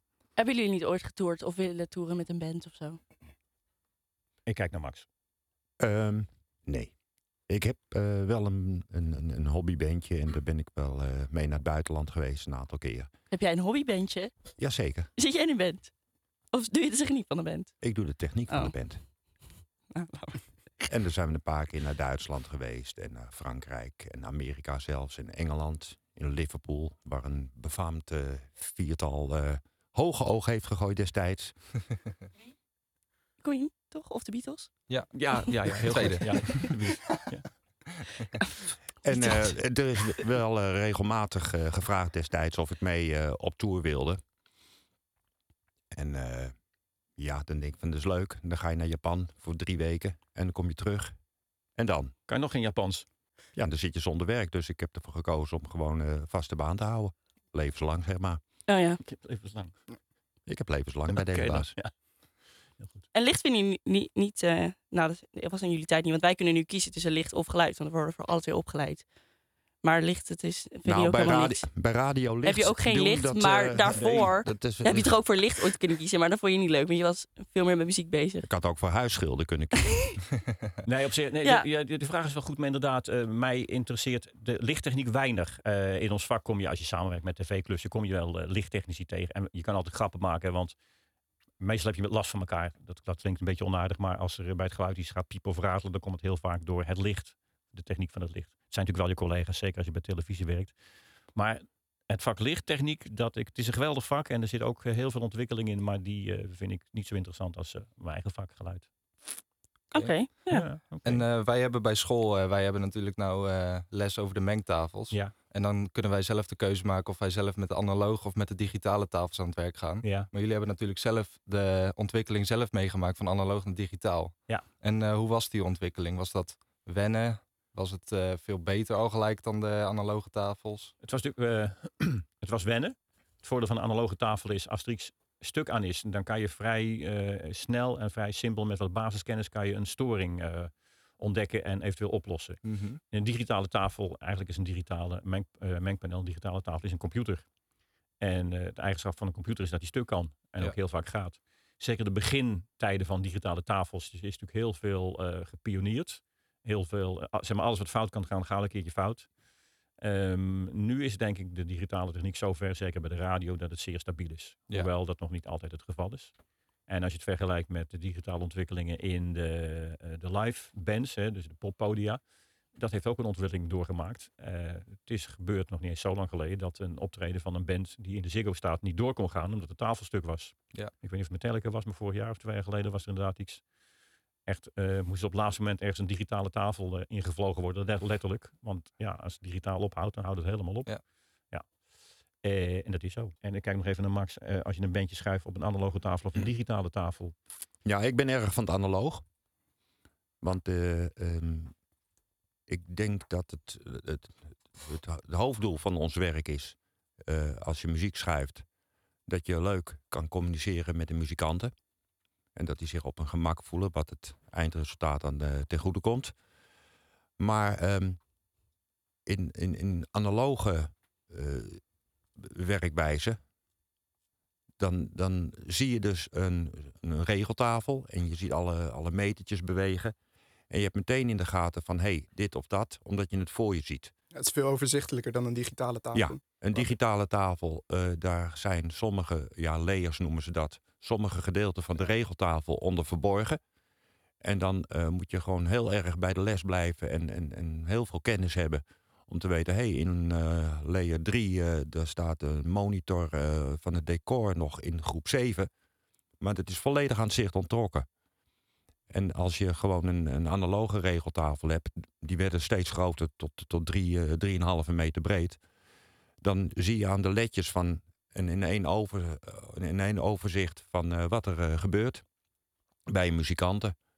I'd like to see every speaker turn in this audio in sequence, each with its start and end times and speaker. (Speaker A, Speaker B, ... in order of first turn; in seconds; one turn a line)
Speaker A: 0.4-3.0
Speaker B: 4.5-5.1
Speaker C: 5.8-6.9
Speaker C: 7.5-13.1
Speaker A: 13.3-14.3
Speaker C: 14.6-15.1
Speaker A: 15.2-15.9
Speaker A: 16.5-17.7
Speaker C: 17.8-19.0
Speaker A: 18.5-18.7
Speaker A: 19.9-20.4
Speaker C: 20.9-31.6
Speaker A: 33.4-34.7
Speaker D: 34.9-36.7
Speaker B: 35.1-37.5
Speaker C: 39.0-44.2
Speaker A: 39.1-39.5
Speaker C: 45.9-46.5
Speaker C: 47.2-51.2
Speaker C: 51.8-52.1
Speaker B: 52.3-53.1
Speaker C: 53.5-58.4
Speaker A: 58.7-59.0
Speaker B: 59.0-59.8
Speaker C: 60.5-61.7
Speaker B: 61.1-61.9
Speaker A: 63.1-69.1
Speaker A: 69.8-71.7
Speaker C: 70.8-75.2
Speaker A: 72.4-78.5
Speaker B: 74.0-74.3
Speaker C: 78.5-80.0
Speaker B: 80.8-90.8
Speaker B: 91.6-100.8
Speaker B: 101.3-108.9
Speaker A: 109.9-110.7
Speaker B: 110.0-111.2
Speaker D: 111.0-130.9
Speaker B: 120.0-120.3
Speaker B: 131.0-147.5
Speaker D: 142.7-143.0
Speaker B: 148.2-159.3
Speaker B: 160.0-166.3
Speaker B: 166.9-172.2
Speaker B: 172.8-183.6
Speaker B: 184.5-190.9
Speaker B: 192.4-197.3
Speaker C: 197.9-199.2
Speaker C: 200.4-201.7
Speaker C: 202.7-208.7
Speaker C: 209.3-211.7
Speaker C: 212.6-216.3
Speaker C: 217.4-218.2
Speaker C: 219.3-221.8
Speaker C: 222.4-223.4
Speaker C: 224.8-230.1
Speaker C: 230.7-234.1
Speaker E: 234.3-236.8
Speaker C: 236.1-243.6
Speaker C: 244.4-255.7
Speaker C: 256.4-258.1
Speaker C: 259.1-265.6
Speaker C: 266.4-272.2
Speaker C: 273.1-273.9